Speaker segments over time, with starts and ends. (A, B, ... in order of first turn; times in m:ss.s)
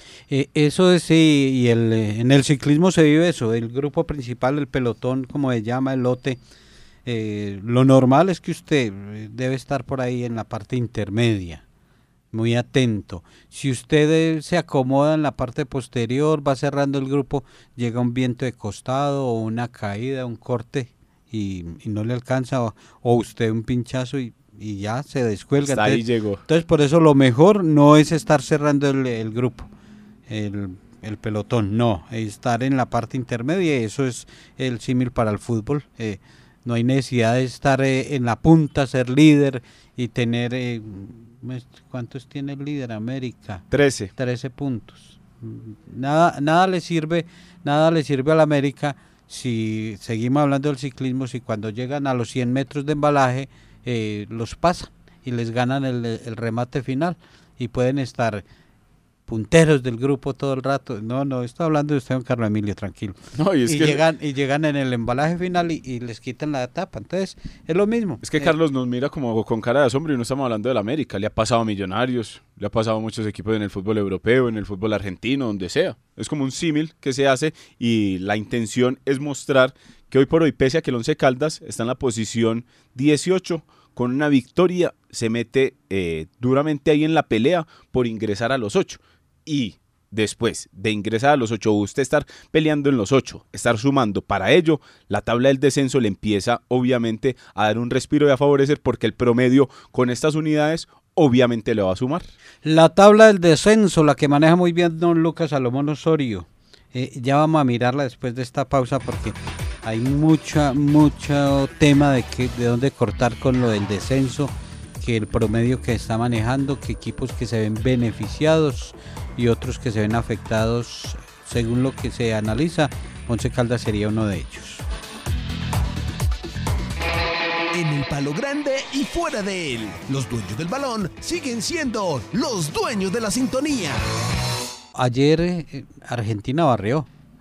0:00.3-0:06.4 A
0:07.0-0:11.6 A
0:12.3-0:29.7 A
0:25.7-0:26.4 B
0:30.3-0:43.7 A
0:43.7-0:44.1 B
0:44.2-0:58.4 A
0:59.3-1:08.5 A
1:03.4-1:04.0 B
1:08.2-1:42.3 B
1:42.6-2:04.8 A
2:07.7-2:14.0 C
2:15.0-2:17.1 A